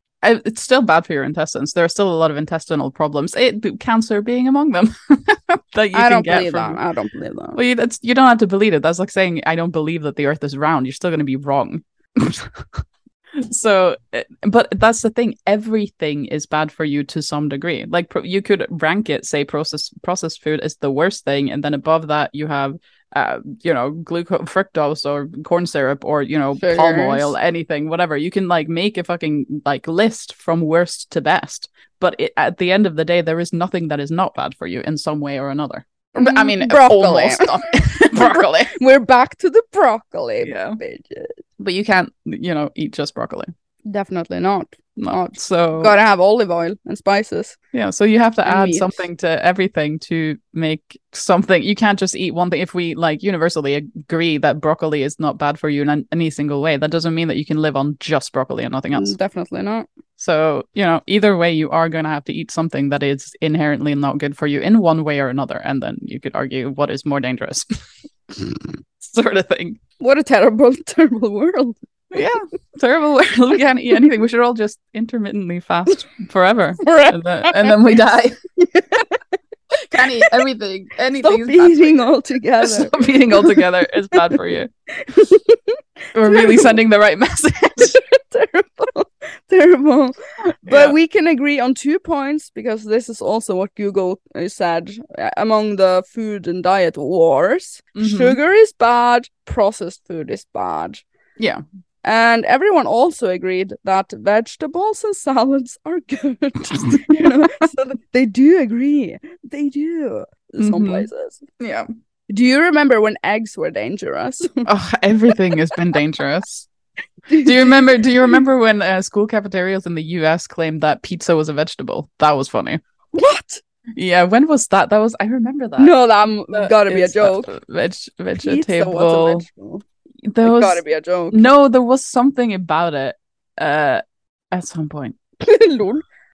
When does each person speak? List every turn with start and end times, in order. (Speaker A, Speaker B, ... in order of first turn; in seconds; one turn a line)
Speaker A: 0.2-6.8
Speaker B: 5.9-7.6
Speaker A: 7.5-38.7
Speaker B: 26.6-27.3
Speaker B: 36.1-41.4
Speaker A: 40.4-40.8
Speaker A: 41.6-43.5
Speaker B: 43.9-47.5
Speaker A: 45.0-45.9
Speaker A: 47.7-59.1
Speaker B: 48.4-49.0
Speaker B: 58.9-59.9
Speaker A: 60.2-67.7
Speaker A: 68.3-69.8
Speaker B: 70.0-71.8
Speaker A: 72.1-78.4
Speaker B: 76.8-77.8
Speaker B: 78.6-79.2
Speaker A: 79.9-82.0
Speaker B: 79.9-80.4
Speaker B: 81.2-84.4
Speaker A: 82.6-84.7
Speaker B: 84.9-86.8
Speaker A: 86.1-88.0
Speaker B: 87.8-101.0
Speaker A: 90.7-91.0
Speaker A: 98.0-98.4
Speaker B: 102.0-111.4
Speaker A: 106.9-107.6
Speaker A: 110.6-111.1
Speaker A: 111.6-111.9
Speaker B: 112.3-114.7
Speaker A: 114.7-116.7
Speaker B: 117.3-118.0
Speaker A: 117.4-122.8
Speaker B: 123.1-123.6
Speaker A: 123.9-126.0
Speaker B: 125.8-127.5
Speaker A: 126.5-129.4
Speaker B: 128.4-129.8
Speaker A: 130.2-135.2
Speaker B: 130.4-131.4
Speaker B: 135.4-136.0